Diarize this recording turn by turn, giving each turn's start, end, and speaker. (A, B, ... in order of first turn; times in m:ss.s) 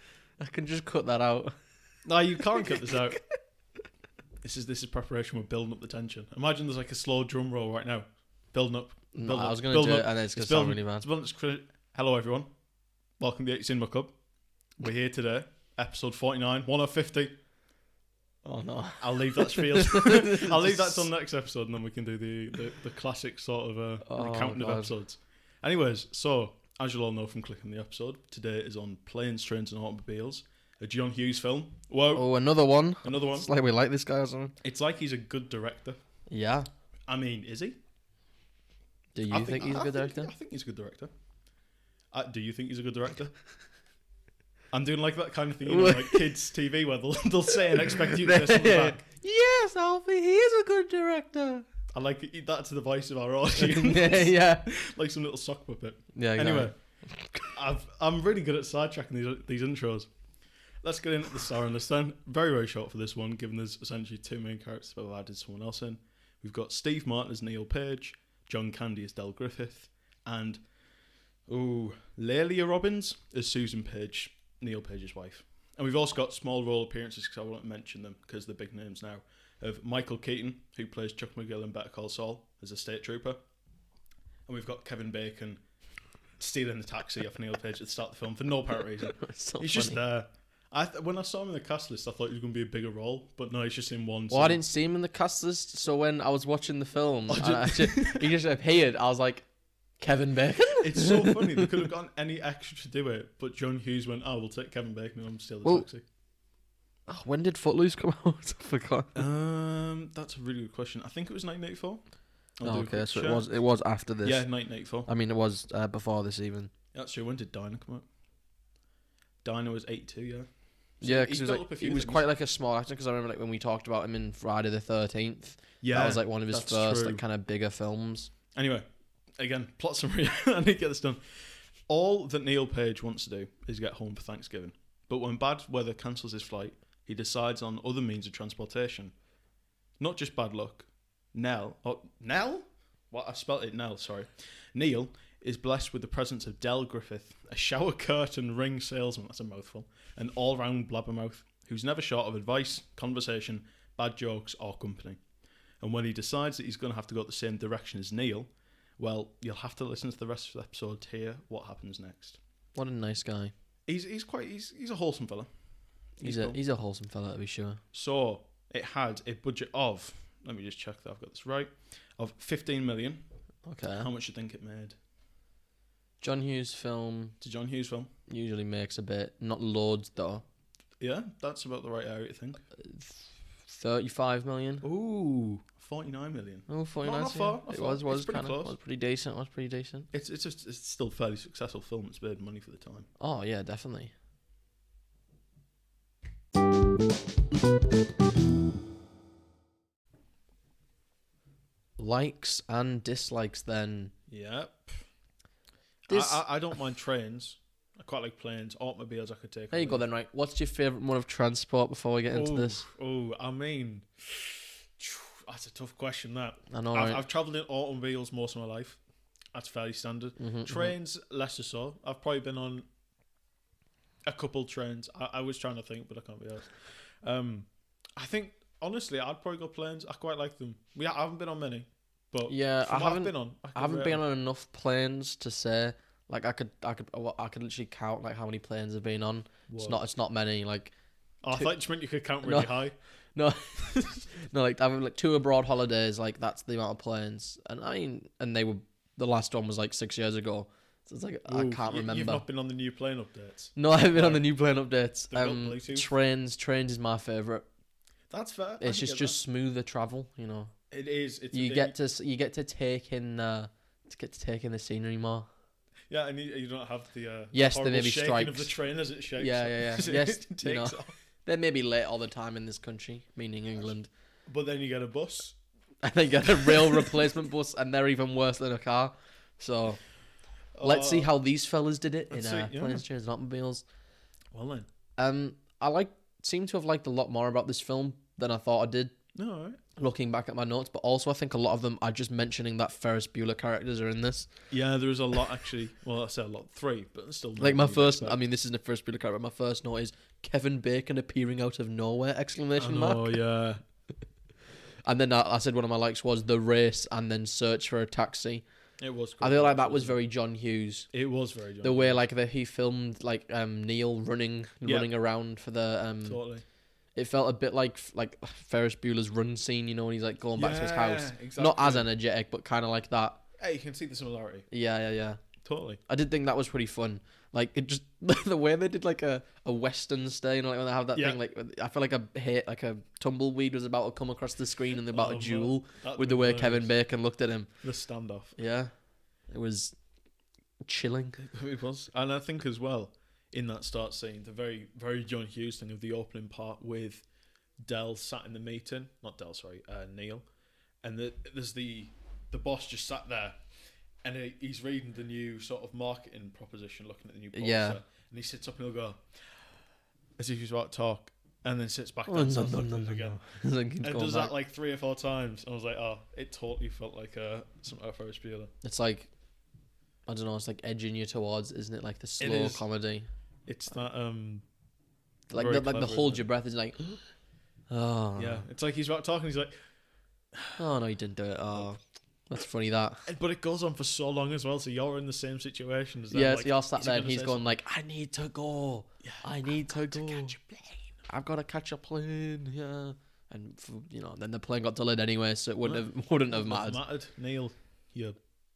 0:00.4-0:01.5 A
0:02.0-0:03.2 B
0:02.7-0:03.0 A
0:04.4-0:12.5 B
0:09.1-0:11.1 A
0:13.2-0:14.2 B
0:14.8-0:17.4 B
0:18.4-0:21.1 A
0:19.0-0:32.3 B
0:24.0-0:24.9 A
0:32.2-0:34.6 A
0:33.0-0:33.5 B
0:34.6-0:36.0 B
0:36.3-0:36.7 A
0:37.1-0:37.8 B
0:39.2-0:40.3 A
0:39.3-0:41.1 B
0:42.1-0:43.3 B
0:44.7-0:49.0 B
0:45.7-0:46.3 A
0:47.7-0:51.6 A
0:51.9-0:56.8 B
0:53.6-0:54.7 A
0:56.2-0:57.5 A
0:57.5-1:00.1 B
1:00.8-1:10.6 B
1:11.5-1:23.4 B
1:24.5-1:25.6 B
1:26.4-1:34.6 B
1:29.1-1:30.0 A
1:34.3-1:39.4 A
1:37.3-1:38.4 B
1:40.0-1:41.7 A
1:40.8-1:46.0 B
1:47.1-1:49.2 A
1:49.2-1:52.0 B
1:52.6-1:53.5 B
1:52.6-1:54.5 A
1:54.2-1:55.1 B
1:55.1-1:56.7 A
1:56.9-1:58.1 B
1:59.4-2:00.5 B
2:01.0-2:02.3 B
2:01.0-2:08.3 A
2:05.8-2:07.2 B
2:08.5-2:19.1 B
2:20.0-2:35.2 B
2:35.8-2:42.4 B
2:42.8-2:43.5 A
2:43.9-2:45.5 B
2:46.2-2:46.6 B
2:46.2-2:47.8 A
2:47.9-2:53.2 B
2:53.7-2:54.1 A
2:54.0-2:55.0 B
2:56.2-2:57.4 A
2:57.4-2:58.1 B
2:58.3-3:00.4 A
3:01.0-3:02.6 B
3:02.8-3:04.8 A
3:04.8-3:08.8 B
3:06.7-3:10.1 A
3:10.1-3:13.1 B
3:13.2-3:14.1 A
3:22.0-3:24.1 A
3:24.3-3:25.0 B
3:26.1-3:26.4 A
3:26.1-3:30.0 B
3:29.7-3:32.8 A
3:32.3-3:39.0 B
3:36.7-3:37.2 A
3:39.5-3:42.9 B
3:40.4-3:40.9 A
3:44.3-3:54.2 B
3:52.5-4:00.9 A
3:59.7-4:00.0 B
4:01.4-4:03.0 B
4:02.4-4:02.7 A
4:03.4-4:12.4 A
4:11.5-4:14.5 B
4:13.8-4:17.7 A
4:15.3-4:16.1 B
4:18.3-4:19.4 B
4:18.8-4:20.7 A
4:20.9-4:21.9 B
4:21.5-4:25.5 A
4:26.1-4:31.2 B
4:27.5-4:28.7 A
4:29.4-4:34.1 A
4:34.5-4:35.6 B
4:36.0-4:40.0 A
4:36.7-4:37.1 B
4:40.8-4:41.3 B
4:40.8-4:43.8 A
4:42.3-4:43.0 B
4:44.5-4:44.9 B
4:45.2-4:49.2 A
4:49.4-4:49.8 B
4:50.0-4:54.5 A
4:54.7-4:58.4 B
4:57.6-5:03.4 A
5:02.8-5:03.8 B
5:05.0-5:08.6 A
5:09.0-5:10.2 B
5:09.4-5:11.1 A
5:11.1-5:12.2 B
5:11.8-5:16.4 A
5:14.8-5:15.1 B
5:16.2-5:16.6 B
5:17.2-5:23.4 A
5:20.6-5:22.1 B
5:23.6-5:24.7 B
5:24.7-5:25.4 A
5:25.6-5:26.0 B
5:26.1-5:37.7 A
5:31.1-5:31.4 B
5:35.1-5:36.9 B
5:37.8-5:38.6 B
5:38.6-5:38.9 A
5:39.5-5:39.9 A
5:40.8-5:41.4 A
5:41.4-5:47.2 B
5:47.8-5:50.4 B
5:51.0-5:53.6 B
5:54.2-5:59.2 B
5:57.5-5:58.0 A
6:00.4-6:03.4 B
6:02.3-6:04.6 A
6:04.0-6:08.7 B
6:08.8-6:09.3 A
6:10.3-6:13.3 A
6:12.4-6:12.8 B
6:13.7-6:14.6 B
6:15.5-6:17.2 A
6:15.5-6:16.5 B
6:17.9-6:18.6 A
6:18.4-6:19.8 B
6:20.8-6:23.3 A
6:23.3-6:27.7 B
6:26.3-6:30.6 A
6:29.2-6:31.1 B
6:31.3-6:37.0 A
6:35.8-6:38.4 B